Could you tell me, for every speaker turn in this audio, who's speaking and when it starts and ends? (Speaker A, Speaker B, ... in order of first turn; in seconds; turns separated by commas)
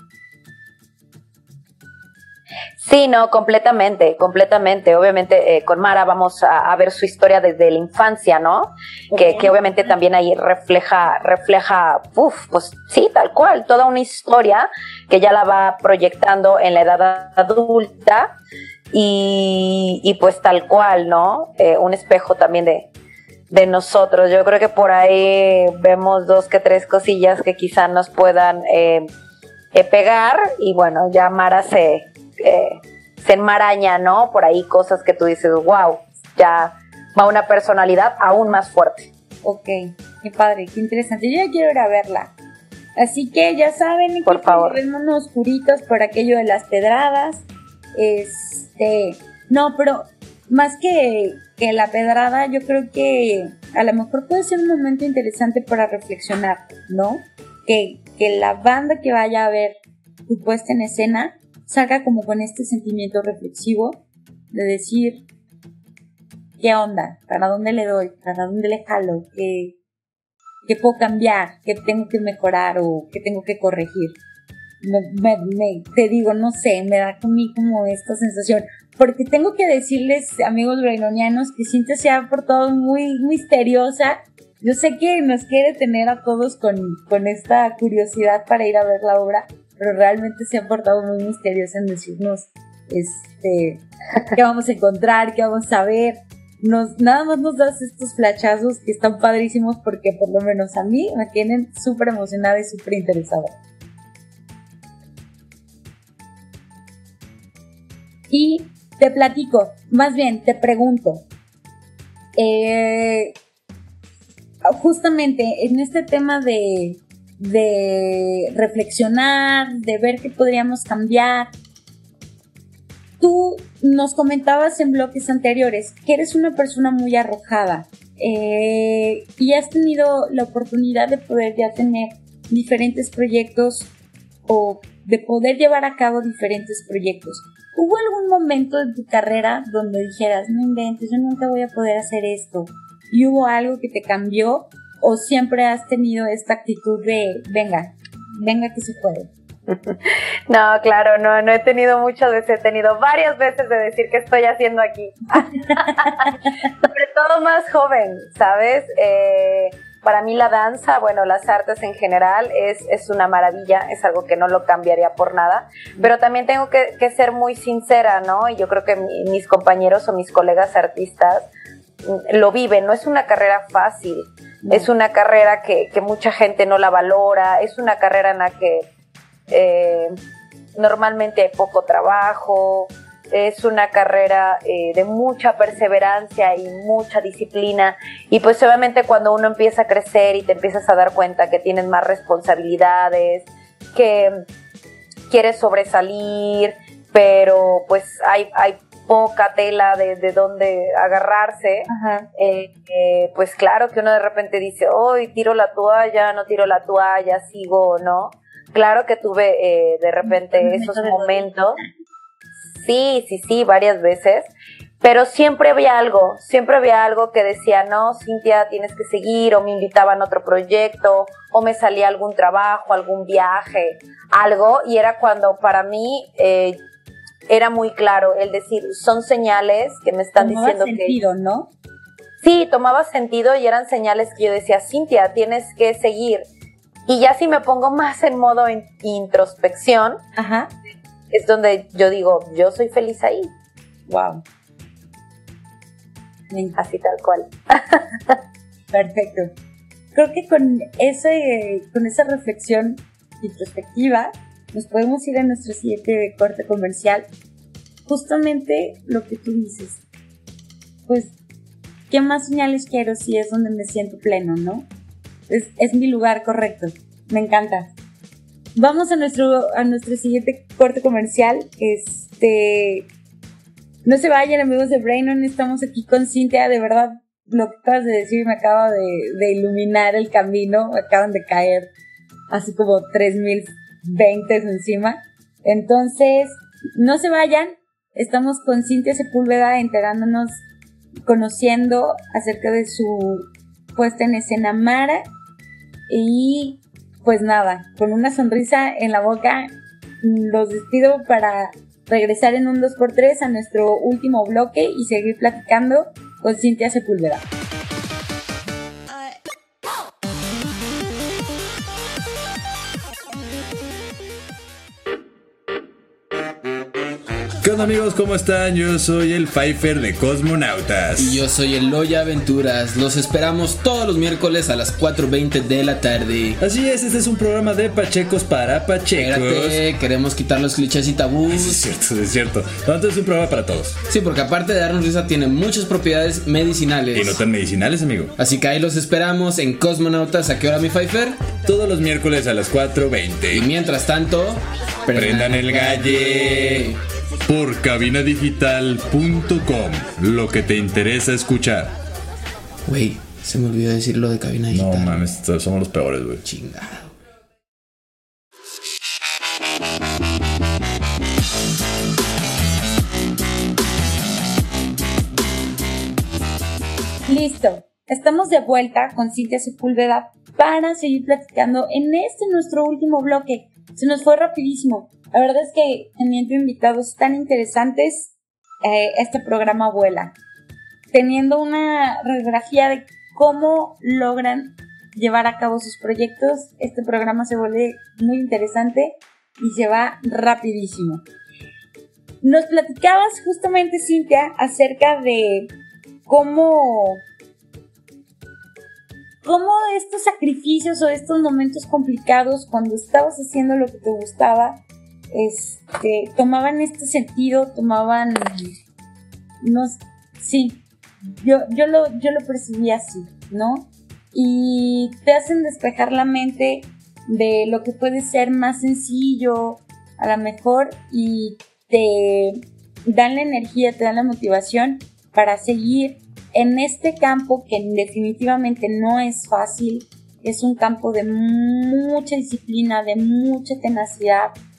Speaker A: 2.7-18.3, Speaker B: 9.1-9.6, Speaker A: 18.9-22.9, Speaker A: 23.5-29.1, Speaker A: 29.7-39.1, Speaker B: 39.4-42.3, Speaker B: 43.0-59.7, Speaker A: 44.2-44.8, Speaker B: 60.3-64.0, Speaker B: 64.5-65.2, Speaker B: 66.6-69.7, Speaker B: 70.6-74.2, Speaker B: 74.8-103.5, Speaker B: 108.3-111.2, Speaker B: 112.3-113.3, Speaker B: 114.6-121.5, Speaker B: 123.2-133.9, Speaker B: 134.5-149.3, Speaker A: 149.7-171.5, Speaker B: 155.8-156.1, Speaker A: 172.0-178.9, Speaker B: 174.6-174.9, Speaker A: 179.5-180.1, Speaker A: 180.7-194.4, Speaker A: 195.3-211.8, Speaker B: 201.9-202.3, Speaker B: 210.2-211.9, Speaker A: 212.7-214.5, Speaker A: 215.0-226.8, Speaker A: 227.5-231.2, Speaker B: 230.4-231.7, Speaker A: 232.4-236.5, Speaker A: 237.1-240.2, Speaker B: 240.3-240.7, Speaker A: 241.3-243.5, Speaker B: 244.1-244.4, Speaker B: 246.5-246.8, Speaker A: 246.8-248.4, Speaker B: 248.9-249.5, Speaker B: 250.1-257.3, Speaker B: 258.1-260.0, Speaker B: 261.1-261.3, Speaker B: 262.1-264.9, Speaker B: 265.5-267.9, Speaker B: 268.7-273.1, Speaker B: 274.0-281.9, Speaker B: 282.5-290.6, Speaker B: 291.2-295.3, Speaker B: 296.1-307.4, Speaker C: 317.6-321.4, Speaker D: 321.1-326.6, Speaker C: 326.6-329.8, Speaker D: 329.1-331.8, Speaker C: 331.5-334.0, Speaker D: 334.1-337.4, Speaker C: 337.1-338.3, Speaker D: 338.4-341.5, Speaker C: 341.6-343.6, Speaker D: 343.5-347.0, Speaker C: 345.1-346.9, Speaker C: 347.5-351.9, Speaker D: 352.9-355.3, Speaker C: 354.7-356.4, Speaker D: 356.4-357.0, Speaker B: 367.2-380.3, Speaker B: 381.1-391.2, Speaker B: 392.4-395.7, Speaker B: 396.2-397.2, Speaker B: 399.4-404.8, Speaker B: 405.3-408.7, Speaker B: 409.6-434.5